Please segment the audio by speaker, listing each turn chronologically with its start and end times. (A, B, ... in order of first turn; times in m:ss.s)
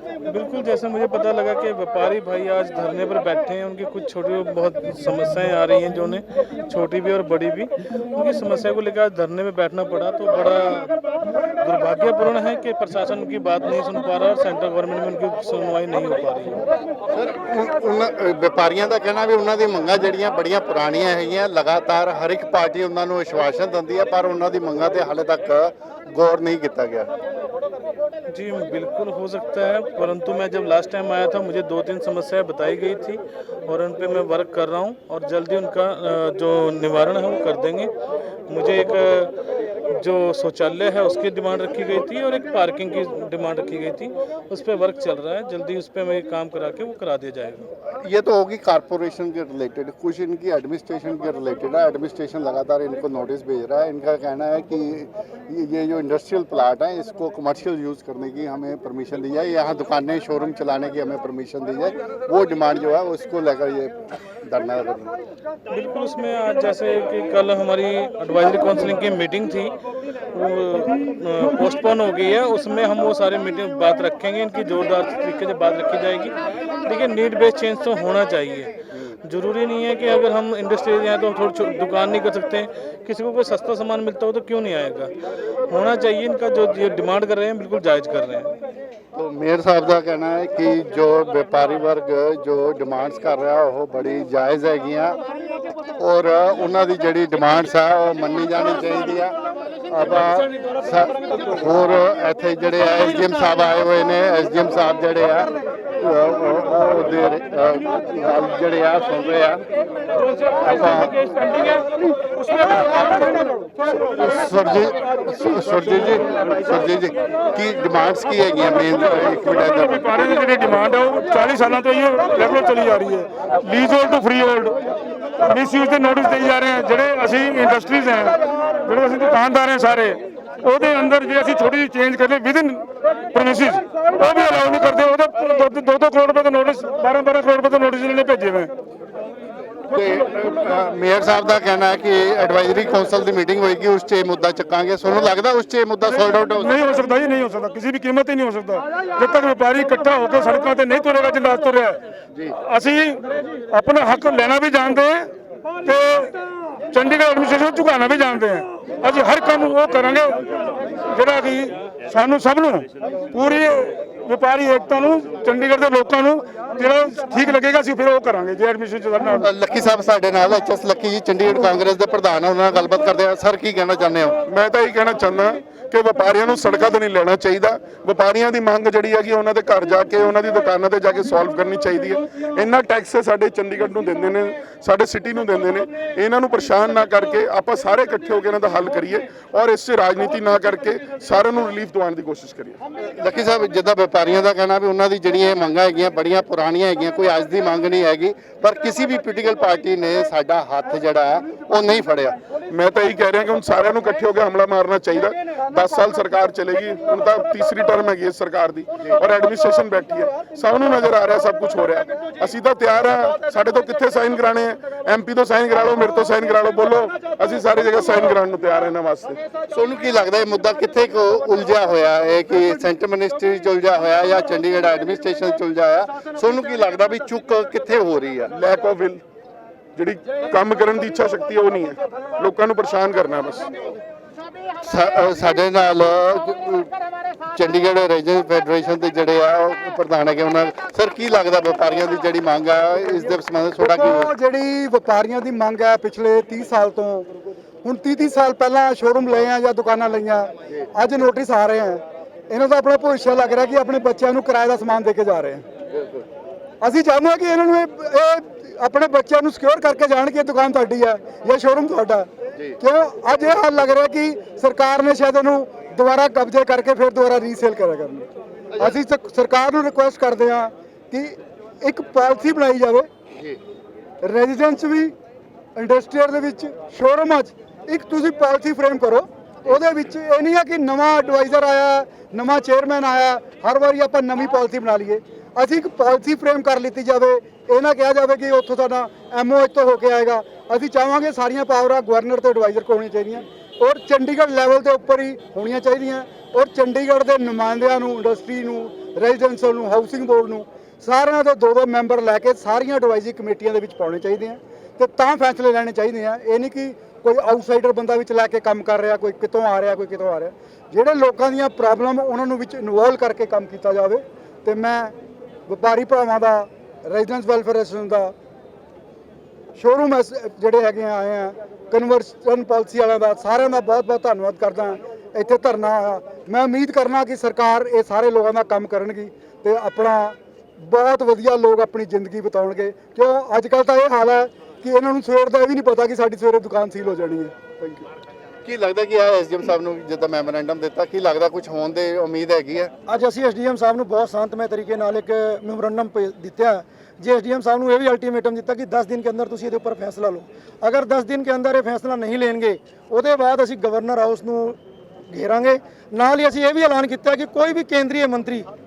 0:00.2-0:11.0 A
0:11.6-0:16.6 A
0:17.1-0:27.1 B
0:28.3-0:37.9 A
0:38.5-0:39.3 A
0:39.9-0:47.7 A
0:47.9-1:05.1 B
1:05.7-1:09.7 A
1:10.3-1:16.3 A
1:16.8-1:18.7 A
1:19.2-1:25.1 A
1:25.7-1:28.5 A
1:29.1-1:35.2 B
1:36.0-1:39.4 B
1:39.9-1:49.6 B
1:50.6-1:51.3 B
1:53.9-2:00.1 B
1:59.9-2:04.8 C
2:05.4-2:18.7 C
2:19.9-2:26.9 B
2:26.1-2:32.0 C
2:32.6-2:35.3 C
2:35.8-2:36.3 C
2:36.9-2:40.5 C
2:41.0-2:49.5 C
2:49.3-2:54.4 B
2:54.4-3:12.8 D
3:13.0-3:22.4 B
3:22.7-3:39.4 D
3:39.7-3:48.5 B
3:48.5-3:49.2 D
3:50.0-3:53.8 D
3:54.8-4:04.3 B
4:03.8-4:07.3 E
4:07.8-4:15.6 E
4:15.9-4:16.2 B
4:16.8-4:33.1 E
4:28.7-4:29.0 B
4:33.3-4:33.6 B
4:34.2-4:35.1 E
4:35.8-5:15.2 E
5:15.7-5:18.3 E
5:19.8-5:38.0 E
5:38.6-5:42.9 B
5:43.0-5:54.8 F
5:55.3-5:58.7 F